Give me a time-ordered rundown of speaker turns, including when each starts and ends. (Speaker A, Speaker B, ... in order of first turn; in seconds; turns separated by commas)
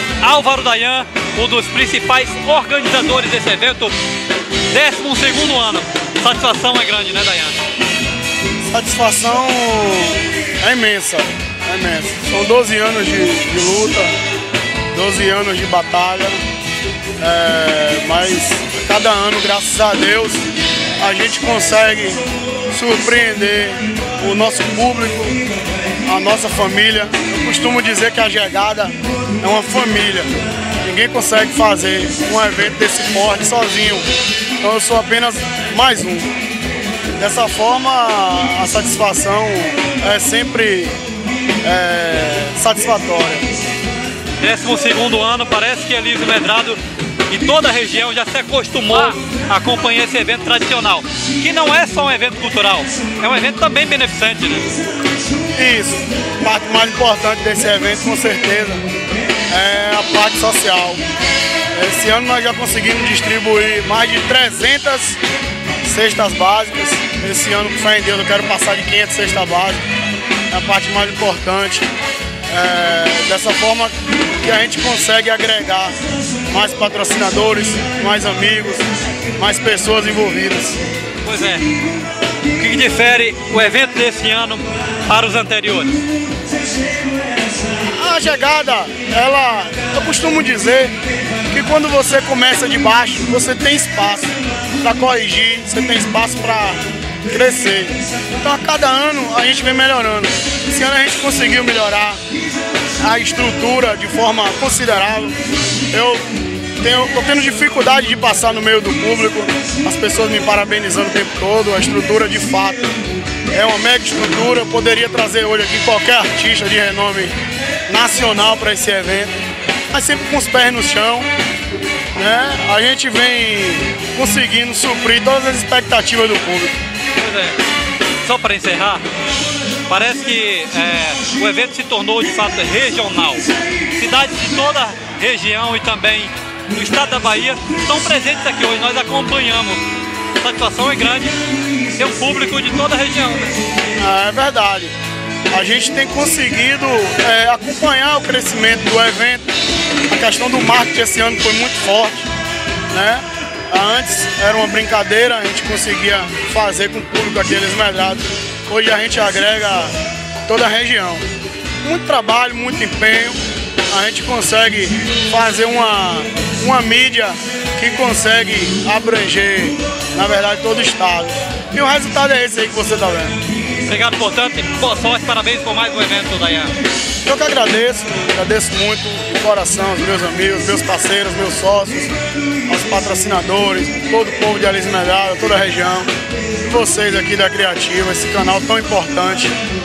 Speaker A: 0.2-4.0, Speaker A: 4.7-7.6, Speaker B: 8.7-14.1, Speaker B: 14.9-16.4, Speaker B: 17.2-20.4, Speaker B: 21.0-25.4, Speaker B: 26.1-30.3, Speaker B: 30.8-34.1, Speaker B: 34.6-36.3, Speaker B: 37.2-40.9, Speaker B: 41.6-43.5, Speaker A: 44.4-46.8, Speaker A: 47.3-54.8, Speaker B: 55.5-58.8, Speaker B: 59.5-61.0, Speaker B: 61.7-65.2, Speaker B: 65.8-69.8, Speaker B: 70.5-71.9, Speaker B: 72.5-75.9, Speaker B: 76.5-78.8, Speaker B: 79.4-80.8, Speaker A: 81.2-81.6, Speaker A: 82.5-86.0, Speaker B: 87.8-91.0, Speaker B: 91.5-102.2, Speaker B: 103.0-105.3, Speaker B: 105.9-112.9, Speaker B: 113.5-117.3, Speaker B: 117.9-119.4, Speaker B: 119.9-121.3, Speaker B: 122.2-126.8, Speaker A: 127.2-127.6, Speaker A: 128.2-129.0, Speaker A: 129.9-139.8, Speaker A: 140.4-141.4, Speaker A: 141.9-143.6, Speaker B: 144.0-144.9, Speaker B: 145.5-149.5, Speaker B: 150.1-152.3, Speaker B: 152.9-159.9, Speaker B: 160.5-161.3, Speaker B: 161.8-163.4, Speaker B: 163.9-173.4, Speaker A: 173.8-176.7, Speaker B: 177.2-182.1, Speaker B: 182.7-186.1, Speaker B: 186.7-189.6